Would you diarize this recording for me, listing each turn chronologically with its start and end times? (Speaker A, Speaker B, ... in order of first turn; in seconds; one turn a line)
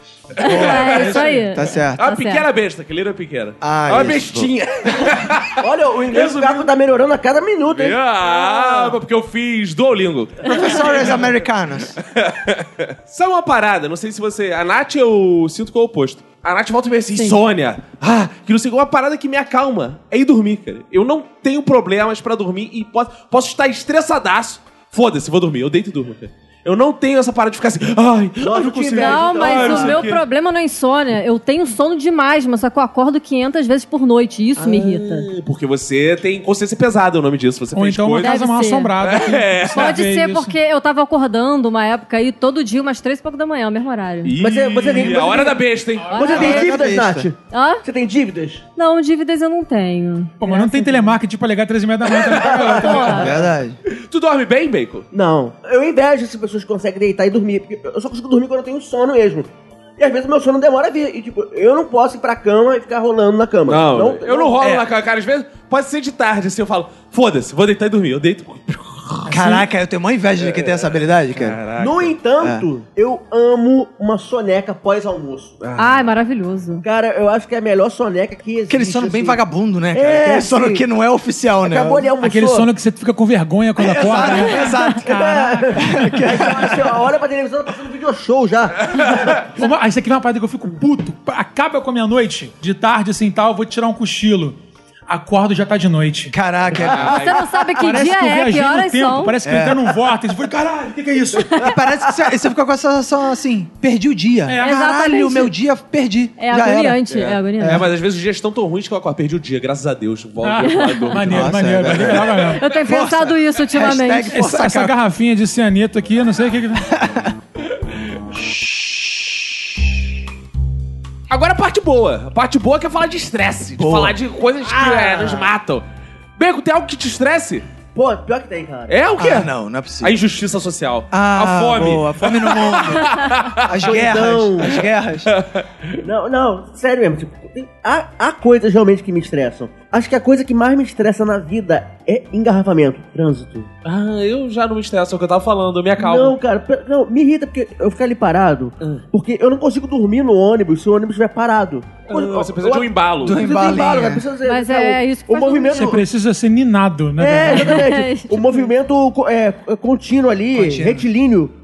Speaker A: 0.3-1.3
Speaker B: 0.4-2.5
Speaker C: 0.4-2.0
Speaker D: 0.8-1.5
Speaker A: 2.0-5.5
Speaker C: 3.6-4.5
Speaker E: 5.6-8.7
Speaker A: 6.1-6.7
Speaker A: 7.7-11.2
Speaker C: 10.4-11.9
Speaker A: 12.0-30.2
Speaker E: 28.4-30.1
Speaker B: 28.9-35.3
Speaker A: 34.6-38.4
Speaker D: 37.7-40.6
Speaker B: 38.2-38.9
Speaker A: 39.0-39.9
Speaker B: 39.7-44.3
Speaker A: 44.2-46.6
Speaker E: 44.4-48.6
Speaker B: 46.1-46.6
Speaker C: 46.3-47.3
Speaker B: 47.5-47.8
Speaker B: 48.8-51.1
Speaker D: 50.4-53.3
Speaker E: 52.5-52.9
Speaker B: 52.8-53.3
Speaker C: 53.1-53.8
Speaker A: 54.0-55.1
Speaker E: 55.1-64.6
Speaker A: 63.6-69.3
Speaker C: 64.6-64.9
Speaker D: 69.3-69.6
Speaker C: 69.3-71.6
Speaker A: 70.4-72.1
Speaker E: 71.8-75.7
Speaker C: 72.4-72.7
Speaker A: 75.6-75.9
Speaker B: 75.8-76.8
Speaker E: 76.8-79.4
Speaker C: 78.7-82.1
Speaker E: 79.9-80.8
Speaker E: 81.6-82.7
Speaker D: 82.2-86.1
Speaker C: 83.8-85.1
Speaker E: 85.1-88.9
Speaker C: 85.8-86.9
Speaker A: 88.9-89.2
Speaker D: 89.5-94.6
Speaker D: 95.1-96.3
Speaker C: 96.3-97.3
Speaker A: 96.7-97.6
Speaker B: 97.1-99.3
Speaker D: 97.8-101.6
Speaker C: 99.4-99.9
Speaker C: 101.6-107.9
Speaker D: 104.5-104.8
Speaker B: 104.6-105.5
Speaker B: 106.4-107.9
Speaker A: 107.1-112.1
Speaker D: 110.4-112.6
Speaker B: 110.7-111.0
Speaker C: 111.3-114.9
Speaker B: 112.5-114.3
Speaker D: 114.3-116.9
Speaker C: 116.9-117.3
Speaker A: 121.3-125.8
Speaker C: 123.8-124.2
Speaker E: 124.8-125.4
Speaker A: 126.4-127.6
Speaker E: 127.9-128.9
Speaker A: 128.9-129.5
Speaker C: 129.2-130.2
Speaker A: 130.0-133.9
Speaker C: 131.1-135.3
Speaker E: 133.8-134.7
Speaker A: 135.3-135.7
Speaker E: 136.0-143.7
Speaker A: 143.8-146.4
Speaker E: 146.0-156.0
Speaker A: 152.1-153.4
Speaker C: 153.2-154.2
Speaker B: 154.4-156.0
Speaker D: 155.7-157.8
Speaker E: 157.2-161.5
Speaker B: 157.4-158.7
Speaker C: 160.5-161.1